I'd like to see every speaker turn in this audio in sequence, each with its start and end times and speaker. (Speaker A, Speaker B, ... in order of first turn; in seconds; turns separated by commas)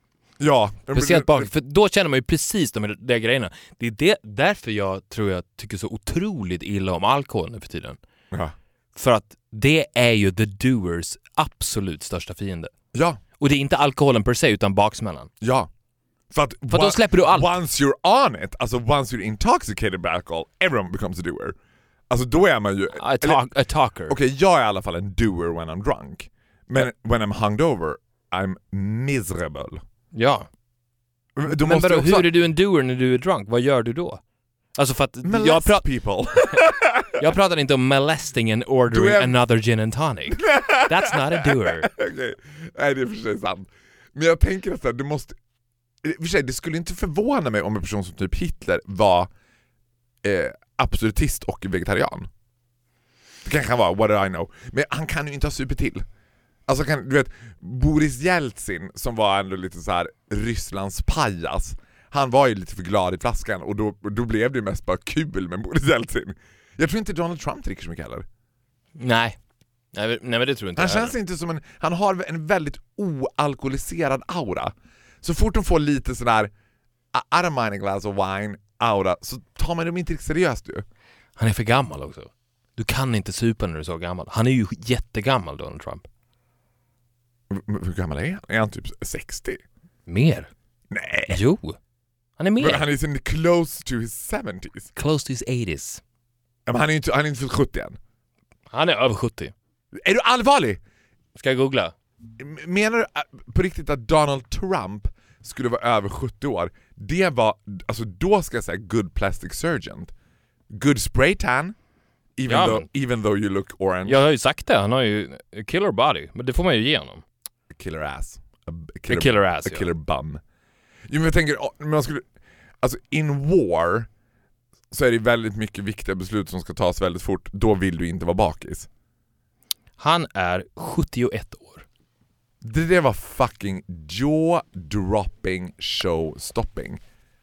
Speaker A: 0.4-1.5, Speaker B: 0.9-8.0, Speaker B: 8.9-12.7, Speaker A: 12.9-13.2, Speaker B: 13.4-15.3, Speaker A: 15.4-15.7, Speaker A: 16.3-21.6, Speaker B: 16.7-17.5, Speaker A: 22.1-23.4, Speaker B: 22.9-24.1, Speaker A: 24.1-29.8, Speaker B: 30.1-30.5, Speaker A: 31.4-32.3, Speaker B: 31.5-34.2, Speaker B: 34.8-35.8, Speaker A: 35.2-37.3, Speaker B: 37.2-41.9, Speaker A: 38.9-39.3, Speaker A: 40.3-45.4, Speaker A: 46.0-49.3, Speaker A: 50.2-52.3, Speaker A: 53.4-56.0, Speaker A: 56.7-68.2, Speaker B: 69.0-69.4, Speaker B: 69.9-71.1, Speaker A: 70.8-76.5, Speaker A: 77.1-80.8, Speaker B: 81.4-86.0, Speaker A: 87.5-89.6, Speaker B: 90.1-90.5, Speaker A: 90.9-91.4, Speaker B: 91.3-91.8, Speaker B: 92.4-92.8, Speaker A: 92.6-94.9, Speaker B: 94.9-96.0, Speaker A: 96.7-98.0, Speaker B: 98.7-99.5, Speaker A: 99.9-100.8, Speaker B: 101.3-101.9, Speaker A: 102.4-110.1, Speaker A: 110.7-111.8, Speaker A: 112.4-114.2, Speaker B: 112.5-112.8, Speaker B: 114.0-117.2, Speaker A: 117.7-120.4, Speaker B: 119.1-119.9, Speaker A: 121.1-122.3, Speaker A: 122.8-124.1, Speaker A: 124.9-128.9, Speaker B: 130.0-131.8, Speaker A: 132.6-137.0